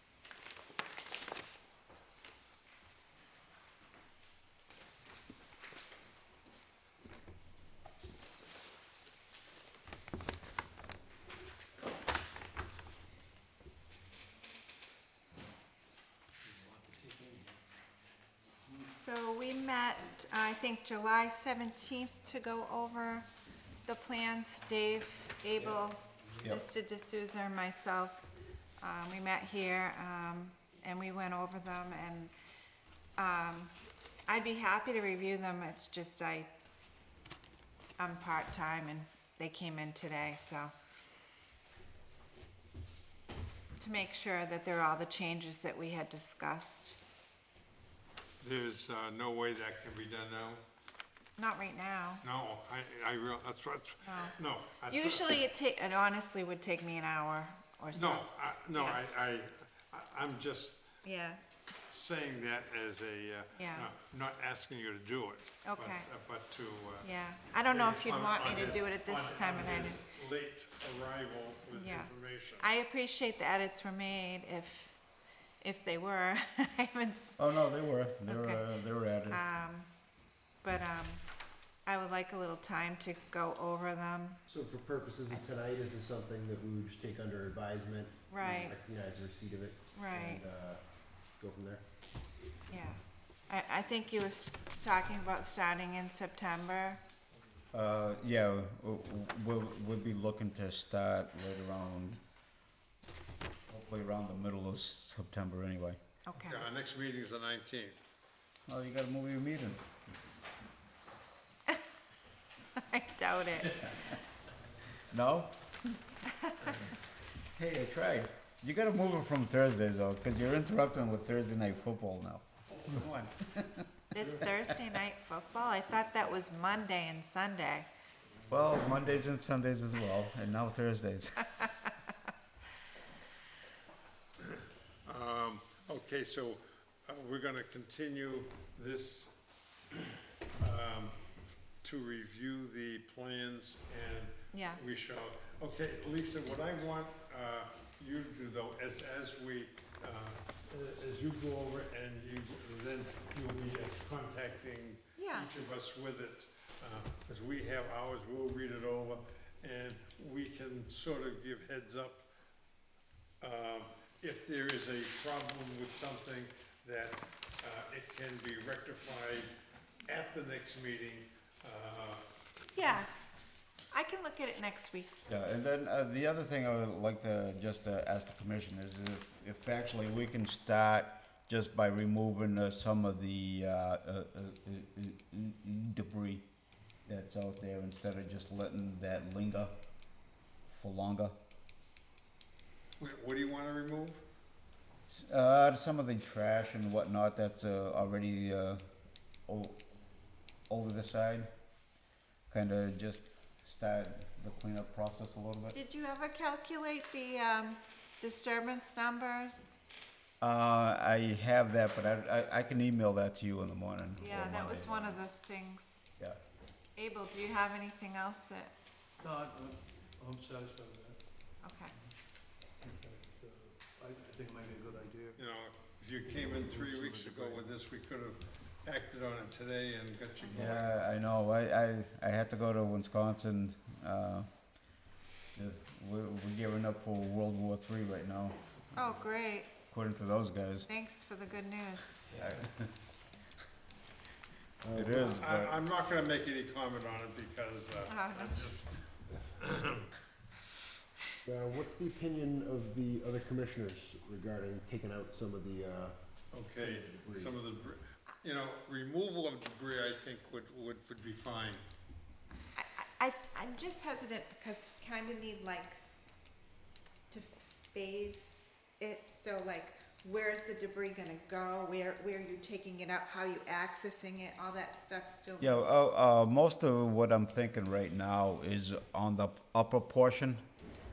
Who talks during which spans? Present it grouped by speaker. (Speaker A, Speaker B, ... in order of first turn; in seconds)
Speaker A: 16.5-17.6, 219.2-221.2, 222.8-225.4, 226.2-227.8
Speaker B: 18.4-23.3, 23.8-28.2, 28.8-32.3, 33.2-33.7, 34.3-36.5, 38.0-40.7, 43.8-47.0, 51.4-52.2, 54.0-54.4, 54.9-59.0, 61.0-61.4, 63.5-63.9, 65.6-66.1, 67.0-70.0, 71.7-75.0, 75.6-77.4, 78.3-78.7, 79.3-79.9, 80.6-81.2, 81.8-84.4, 88.3-88.8, 89.9-90.4, 92.7-97.0, 106.2-106.7, 112.8-114.0, 116.4-116.8, 124.1-127.9, 144.5-144.8, 155.2-155.5, 172.7-173.1, 173.9-175.2, 205.7-209.8, 214.2-216.1, 216.9-218.7, 221.6-221.9, 238.9-239.8, 240.9-242.3, 248.1-248.6, 262.8-266.0, 267.3-275.9
Speaker C: 48.4-50.6, 52.2-55.4, 57.9-60.9, 61.8-67.1, 67.6-72.7, 106.4-108.1, 134.4-139.3, 140.6-141.2, 141.8-162.2, 163.4-169.5, 170.1-172.2, 193.0-194.2, 225.4-230.9, 245.1-250.1, 256.5-261.8
Speaker D: 77.4-79.4, 97.7-102.2, 103.7-106.0, 108.7-109.8, 115.1-115.7, 117.5-124.5, 128.5-131.5, 175.3-186.4, 187.1-189.7, 190.7-191.3, 195.1-198.8, 199.5-199.8, 200.7-201.5, 202.5-205.8, 210.4-215.2, 230.5-234.5, 235.5-238.6, 239.9-240.9, 242.3-242.9, 244.9-245.8, 275.6-280.7
Speaker E: 84.5-91.8, 244.8-245.2, 251.4-257.6